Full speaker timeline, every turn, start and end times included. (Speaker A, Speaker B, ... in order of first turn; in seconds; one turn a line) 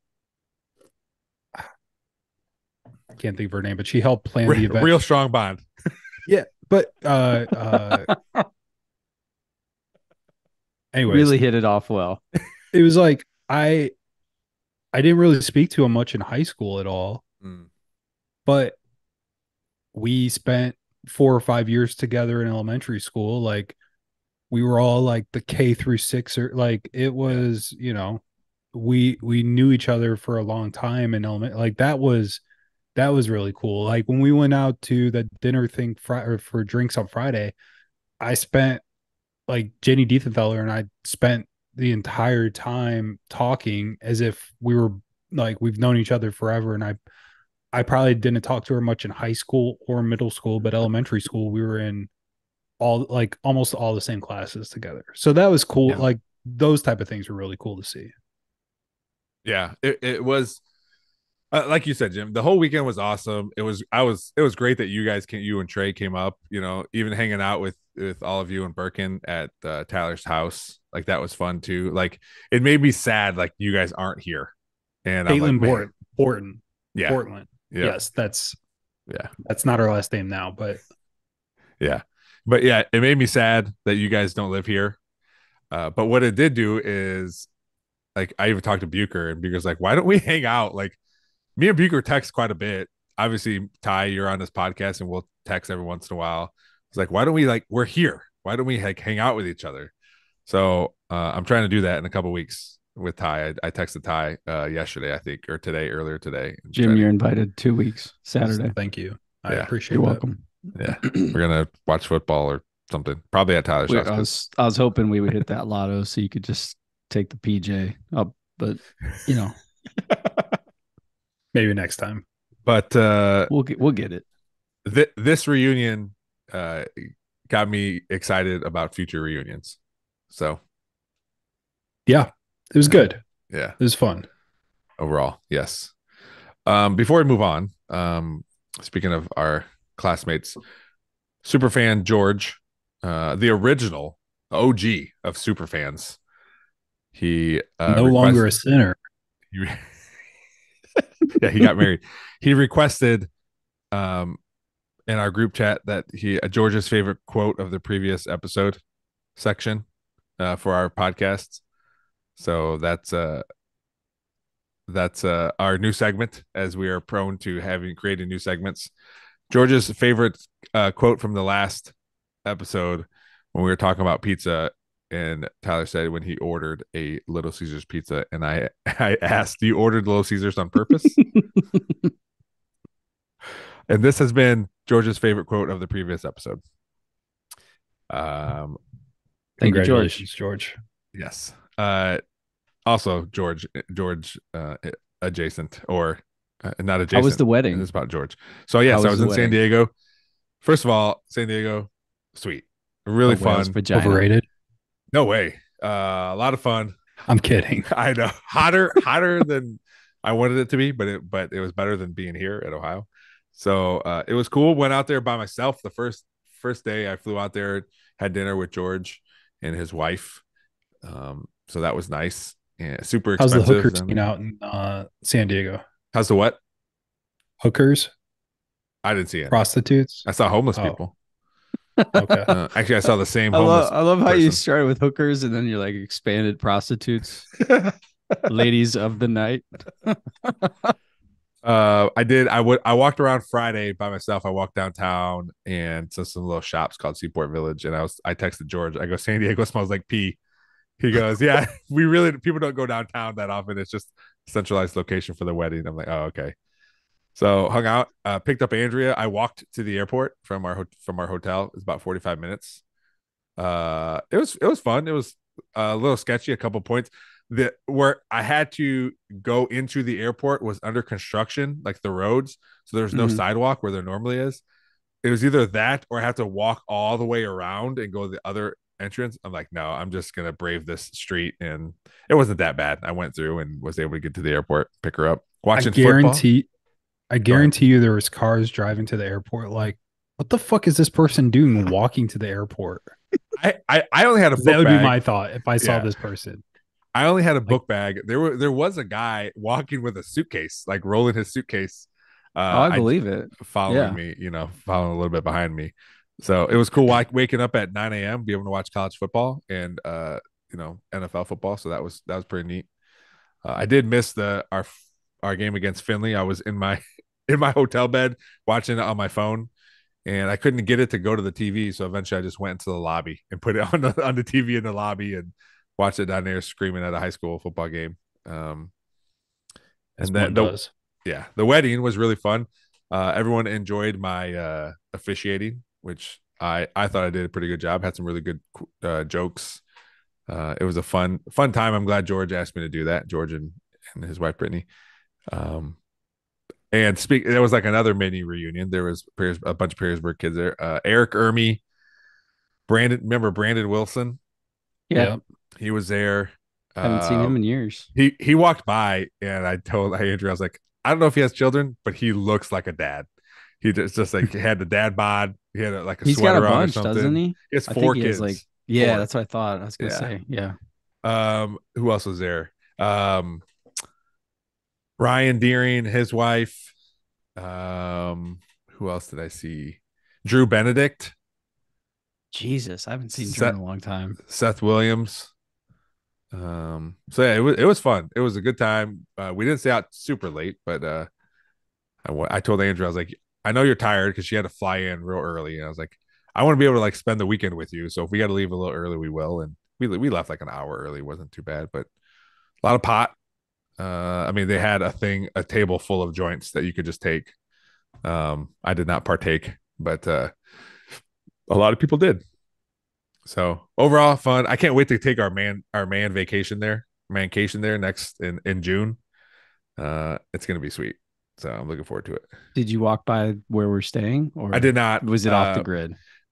Speaker A: 3.2-4.9
Speaker B: 4.5-5.7
Speaker A: 6.3-8.1
Speaker A: 10.9-11.3
Speaker C: 11.1-12.2
Speaker A: 12.7-13.9
Speaker A: 14.9-17.2
Speaker B: 17.4-17.7
Speaker A: 18.5-18.8
Speaker A: 19.9-23.8
Speaker A: 24.5-28.2
Speaker A: 28.7-32.4
Speaker A: 33.0-37.5
Speaker A: 38.2-38.8
Speaker A: 39.5-47.0
Speaker A: 47.7-52.1
Speaker A: 52.8-58.1
Speaker B: 59.5-60.6
Speaker B: 61.5-74.5
Speaker B: 75.0-75.9
Speaker A: 75.3-78.6
Speaker B: 77.7-78.0
Speaker A: 79.4-80.8
Speaker B: 81.8-85.0
Speaker B: 85.7-87.5
Speaker B: 88.2-91.0
Speaker B: 91.6-99.9
Speaker B: 100.5-107.1
Speaker C: 106.7-108.7
Speaker A: 108.4-110.2
Speaker C: 109.9-110.4
Speaker B: 110.8-114.3
Speaker C: 111.0-111.4
Speaker C: 113.9-119.5
Speaker B: 120.1-120.5
Speaker A: 121.5-122.2
Speaker B: 122.7-123.5
Speaker C: 123.5-124.2
Speaker B: 124.8-129.8
Speaker B: 130.3-130.6
Speaker A: 132.1-133.2
Speaker B: 132.9-133.8
Speaker A: 133.8-134.3
Speaker B: 135.0-135.9
Speaker B: 136.7-140.6
Speaker B: 141.4-146.2
Speaker B: 147.1-148.5
Speaker A: 147.9-148.9
Speaker B: 149.5-149.9
Speaker B: 151.4-153.3
Speaker B: 153.9-154.4
Speaker B: 155.1-158.8
Speaker B: 159.4-159.8
Speaker B: 160.4-161.6
Speaker B: 162.4-163.4
Speaker B: 164.9-168.9
Speaker B: 169.5-171.9
Speaker B: 172.4-181.2
Speaker B: 183.9-186.6
Speaker B: 188.1-188.8
Speaker C: 189.6-190.3
Speaker A: 189.6-190.8
Speaker B: 191.1-192.2
Speaker B: 192.9-199.9
Speaker C: 197.1-197.9
Speaker C: 198.9-199.6
Speaker B: 200.6-203.8
Speaker C: 203.3-204.3
Speaker A: 203.9-204.5
Speaker B: 205.1-207.0
Speaker A: 207.3-207.9
Speaker B: 207.9-220.4
Speaker B: 221.0-224.2
Speaker A: 223.4-225.8
Speaker B: 226.1-226.6
Speaker A: 227.6-228.1
Speaker B: 229.0-229.6
Speaker A: 229.5-231.0
Speaker B: 230.2-231.1
Speaker C: 232.0-232.5
Speaker A: 232.2-232.5
Speaker B: 232.5-234.6
Speaker C: 233.5-237.5
Speaker B: 237.7-237.9
Speaker C: 238.5-240.9
Speaker B: 241.6-250.4
Speaker B: 251.0-256.6
Speaker B: 257.4-262.8
Speaker B: 263.6-274.6
Speaker C: 273.1-273.4
Speaker B: 275.2-286.4
Speaker A: 285.8-286.7
Speaker A: 287.3-293.1
Speaker B: 293.5-295.2
Speaker A: 294.6-296.6
Speaker B: 295.8-296.1
Speaker B: 297.1-312.9
Speaker C: 302.7-304.2
Speaker B: 313.6-319.7
Speaker B: 320.3-328.9
Speaker B: 330.2-330.7
Speaker A: 330.2-330.9
Speaker B: 331.2-339.8
Speaker B: 340.5-344.9
Speaker B: 345.5-346.0
Speaker B: 346.9-351.8
Speaker B: 352.9-354.4
Speaker C: 355.1-355.4
Speaker A: 355.1-355.4
Speaker B: 355.8-357.6
Speaker C: 357.0-358.1
Speaker B: 358.1-363.3
Speaker B: 363.8-369.3
Speaker C: 366.2-370.8
Speaker B: 370.0-370.3
Speaker B: 371.2-373.6
Speaker B: 375.2-376.9
Speaker B: 377.6-381.4
Speaker C: 382.5-384.4
Speaker B: 383.4-383.8
Speaker B: 384.4-385.5
Speaker B: 386.5-391.3
Speaker B: 392.2-402.1
Speaker B: 402.8-403.3
Speaker B: 404.0-407.5
Speaker B: 408.2-410.5
Speaker B: 411.7-412.4
Speaker B: 413.4-419.2
Speaker B: 420.0-422.5
Speaker C: 422.8-426.2
Speaker B: 424.7-425.9